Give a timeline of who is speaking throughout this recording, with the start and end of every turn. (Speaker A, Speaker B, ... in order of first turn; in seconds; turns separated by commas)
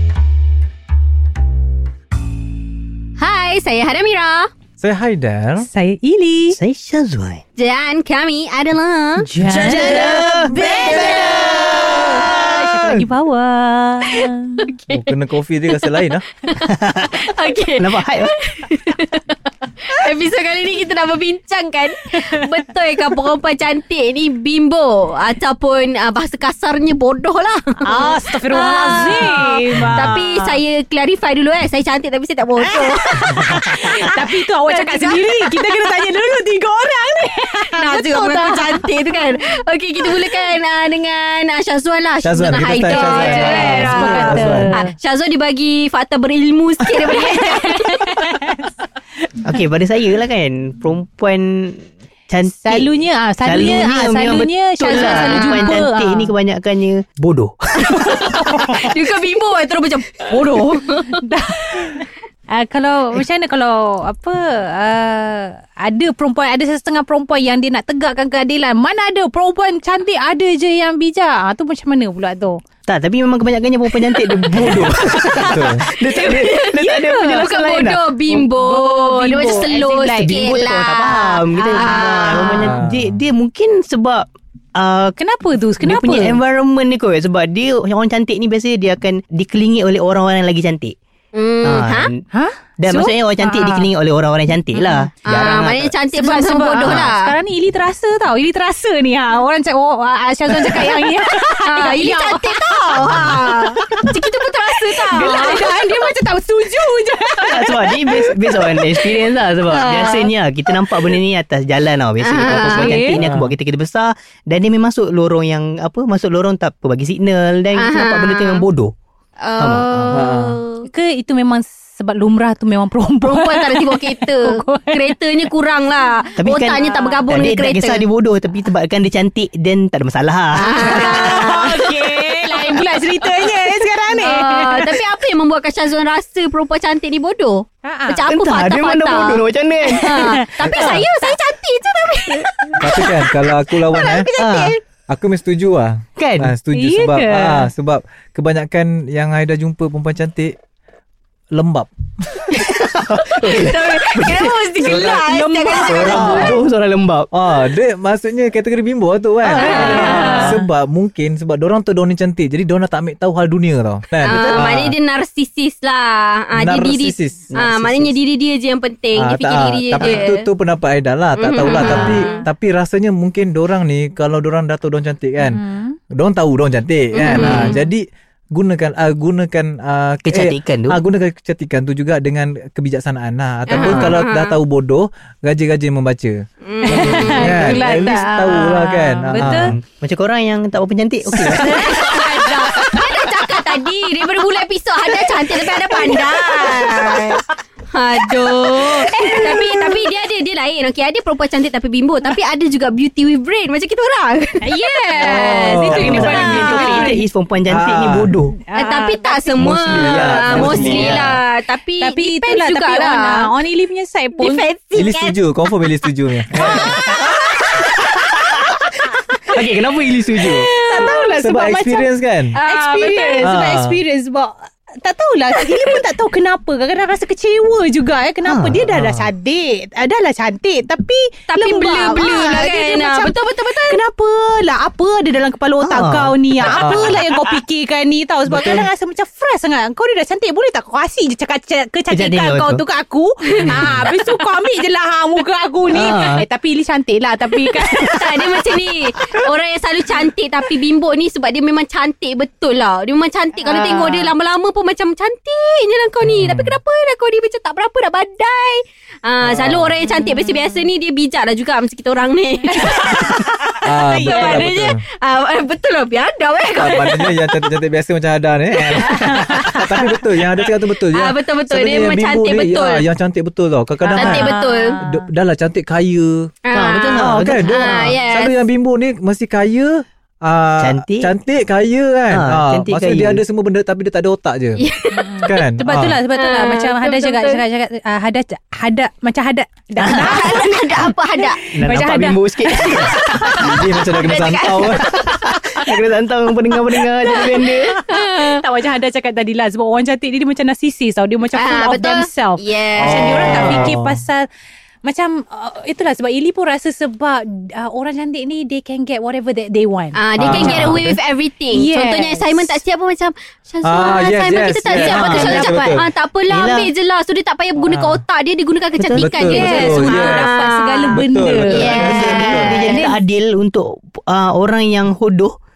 Speaker A: 3.2-4.5, Speaker B: 4.8-5.7, Speaker C: 5.6-6.6, Speaker D: 6.5-7.4, Speaker A: 7.6-12.3, Speaker D: 9.2-13.0, Speaker C: 9.3-14.7, Speaker A: 14.1-15.1, Speaker B: 14.9-16.2, Speaker A: 15.7-19.3, Speaker D: 16.6-18.3, Speaker A: 19.9-35.6, Speaker C: 27.9-30.6, Speaker C: 32.6-38.9, Speaker A: 37.8-48.4, Speaker C: 40.1-40.4, Speaker B: 42.2-44.7, Speaker C: 42.8-44.9, Speaker C: 46.9-48.6, Speaker D: 49.4-52.9, Speaker C: 52.4-56.3, Speaker D: 53.4-58.9, Speaker A: 54.9-55.8, Speaker A: 57.9-61.2, Speaker C: 58.0-58.8, Speaker C: 61.1-72.6, Speaker D: 72.9-78.0, Speaker C: 74.1-77.6, Speaker A: 74.8-76.8, Speaker B: 75.5-75.9, Speaker A: 77.4-82.8, Speaker C: 78.5-80.7, Speaker D: 80.2-85.2, Speaker C: 81.6-82.5, Speaker B: 82.6-83.2, Speaker C: 85.2-86.4, Speaker D: 85.8-91.0, Speaker A: 91.3-92.1, Speaker D: 91.6-92.2, Speaker C: 92.3-93.9, Speaker D: 92.8-95.9, Speaker C: 94.8-95.1, Speaker A: 95.2-97.3, Speaker C: 96.1-109.2, Speaker D: 96.8-97.1, Speaker A: 100.8-106.1, Speaker B: 103.0-103.4, Speaker D: 107.4-118.9, Speaker A: 109.7-110.3, Speaker A: 112.2-113.0, Speaker C: 112.5-113.2, Speaker B: 113.2-113.5, Speaker A: 117.8-118.7, Speaker A: 119.4-120.9, Speaker D: 119.6-120.3, Speaker B: 120.1-120.6, Speaker C: 120.8-125.2, Speaker A: 123.2-128.1, Speaker D: 126.4-131.4, Speaker A: 130.6-132.8, Speaker C: 130.7-135.0, Speaker A: 134.1-142.7, Speaker C: 137.8-138.2, Speaker D: 138.3-141.1, Speaker C: 139.9-141.3, Speaker B: 140.7-140.9, Speaker B: 142.8-144.3, Speaker A: 144.0-144.7, Speaker D: 144.4-144.8, Speaker B: 145.1-150.6, Speaker D: 146.2-146.5, Speaker C: 146.7-147.7, Speaker B: 151.5-152.5, Speaker D: 152.6-154.6, Speaker B: 153.4-153.8, Speaker A: 153.4-156.6, Speaker B: 154.8-156.6, Speaker C: 155.3-156.5, Speaker D: 155.7-157.3, Speaker B: 157.3-165.0, Speaker D: 159.5-160.6, Speaker A: 159.6-160.3, Speaker C: 159.6-160.6, Speaker A: 164.2-170.5, Speaker B: 166.6-168.2, Speaker B: 169.2-186.4, Speaker A: 171.4-172.4, Speaker C: 171.9-172.4, Speaker C: 175.4-176.0, Speaker A: 177.1-177.8, Speaker D: 177.4-177.7, Speaker D: 180.3-181.0, Speaker A: 183.7-184.6, Speaker A: 186.6-188.2, Speaker C: 186.8-189.8, Speaker B: 187.0-189.8, Speaker D: 189.4-192.2, Speaker C: 191.3-193.6, Speaker A: 191.8-207.2, Speaker C: 195.2-197.4, Speaker C: 198.4-200.1, Speaker C: 204.6-207.2, Speaker B: 205.2-206.6, Speaker D: 205.9-208.6, Speaker B: 207.7-208.3, Speaker C: 208.7-209.6, Speaker A: 208.8-213.5, Speaker D: 209.6-211.3, Speaker B: 209.6-211.4, Speaker C: 212.0-214.7, Speaker A: 214.4-215.4, Speaker B: 215.0-217.2, Speaker A: 216.7-217.8, Speaker C: 216.7-218.4, Speaker C: 219.1-219.6, Speaker D: 219.5-220.7, Speaker C: 220.4-248.7, Speaker B: 221.4-222.6, Speaker A: 222.5-223.5, Speaker B: 223.4-224.0, Speaker D: 228.4-228.8, Speaker B: 228.9-229.3, Speaker A: 231.5-234.0, Speaker D: 235.8-236.8, Speaker B: 236.6-237.2, Speaker B: 238.5-238.9, Speaker D: 242.1-242.8, Speaker A: 243.5-243.9, Speaker B: 243.6-244.1, Speaker D: 245.9-246.4, Speaker A: 247.9-267.6, Speaker C: 253.6-254.3, Speaker B: 256.2-256.8, Speaker B: 259.4-260.0, Speaker C: 260.1-260.6, Speaker C: 262.7-264.6, Speaker B: 263.8-265.0, Speaker B: 266.8-276.5, Speaker A: 268.9-269.9, Speaker C: 269.1-269.9, Speaker A: 271.1-273.1, Speaker C: 274.1-275.3, Speaker A: 274.1-275.0, Speaker A: 276.6-278.6, Speaker D: 276.7-278.2, Speaker B: 277.1-284.8, Speaker D: 280.8-281.3, Speaker D: 282.3-283.4, Speaker A: 284.8-285.5, Speaker C: 285.1-293.9, Speaker B: 285.4-286.2, Speaker A: 286.4-287.6, Speaker D: 290.0-291.1, Speaker A: 290.2-291.6, Speaker D: 291.7-293.6, Speaker B: 293.6-295.1, Speaker A: 294.1-295.5, Speaker D: 295.1-298.0, Speaker C: 295.2-295.9, Speaker C: 297.2-304.5, Speaker A: 297.3-298.6, Speaker A: 301.5-303.9, Speaker B: 303.0-304.2, Speaker C: 305.0-310.9, Speaker A: 310.1-323.1, Speaker B: 310.4-311.2, Speaker D: 310.7-311.0, Speaker C: 311.7-312.8, Speaker B: 313.8-316.1, Speaker D: 315.0-316.9, Speaker B: 317.9-318.2, Speaker B: 319.1-320.5, Speaker C: 319.5-323.1, Speaker B: 321.1-322.9, Speaker D: 321.8-325.6